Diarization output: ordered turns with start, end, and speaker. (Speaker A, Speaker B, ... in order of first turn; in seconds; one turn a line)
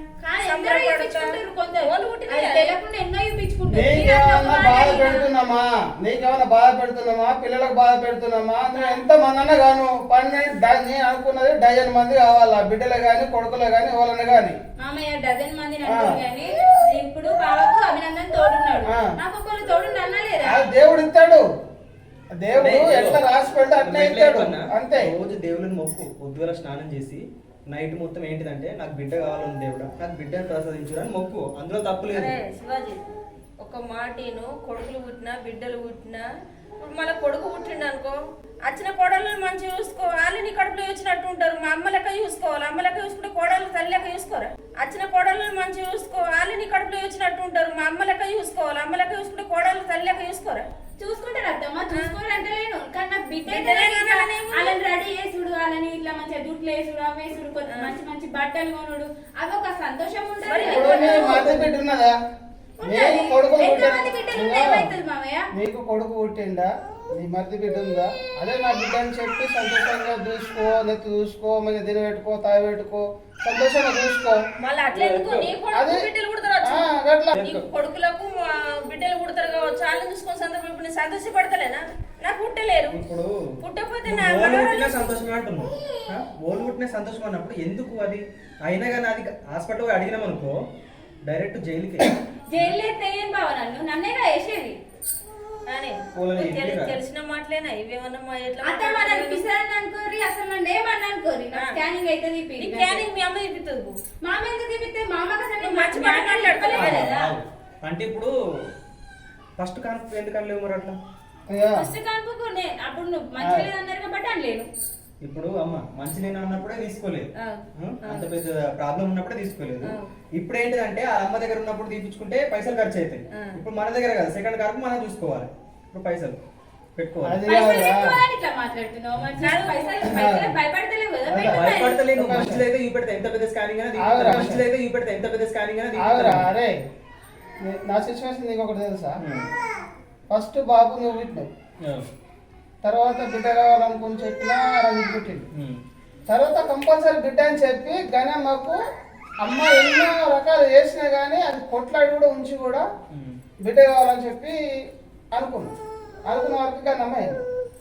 Speaker A: 0.2-5.3
Speaker B: 0.4-2.7
Speaker C: 3.7-14.6
Speaker A: 8.7-9.0
Speaker A: 14.8-20.6
Speaker C: 15.8-16.2
Speaker C: 20.5-21.4
Speaker C: 22.3-25.1
Speaker D: 22.6-23.2
Speaker D: 23.8-32.4
Speaker B: 32.1-33.0
Speaker B: 33.6-36.2
Speaker B: 36.8-50.7
Speaker A: 51.0-61.5
Speaker B: 53.5-54.8
Speaker B: 60.5-61.5
Speaker C: 60.6-62.1
Speaker A: 62.8-65.4
Speaker C: 62.9-64.9
Speaker C: 65.5-74.4
Speaker B: 74.6-76.9
Speaker D: 74.9-75.5
Speaker C: 75.7-76.1
Speaker C: 76.7-77.6
Speaker B: 77.4-83.0
Speaker D: 82.9-83.3
Speaker B: 83.6-85.2
Speaker D: 84.0-90.5
Speaker D: 91.2-92.1
Speaker A: 92.5-94.8
Speaker B: 95.7-99.4
Speaker D: 96.2-97.0
Speaker A: 98.6-103.0
Speaker B: 102.6-104.0
Speaker A: 104.2-107.3
Speaker B: 105.6-107.1
Speaker D: 106.7-108.3
Speaker D: 109.6-111.0
Speaker C: 111.5-111.9
Speaker A: 111.8-114.7
Speaker C: 113.4-113.7
Speaker D: 115.2-117.3
Speaker B: 117.4-118.3
Speaker D: 117.8-126.4
Speaker D: 127.0-127.4
Speaker C: 127.2-128.1
Speaker A: 127.5-132.0
Speaker B: 129.4-130.1
Speaker C: 130.1-130.5
Speaker C: 131.3-132.6
Speaker D: 131.4-136.4
Speaker C: 134.0-134.6
Speaker C: 135.9-136.7
Speaker C: 137.7-139.2
Speaker D: 139.2-139.5
Speaker C: 140.3-141.5
Speaker C: 142.8-145.5
Speaker D: 145.5-145.8
Speaker C: 146.3-148.8
Speaker C: 149.4-152.9
Speaker D: 153.1-153.4
Speaker C: 153.6-154.6
Speaker C: 155.3-155.7
Speaker C: 156.3-157.4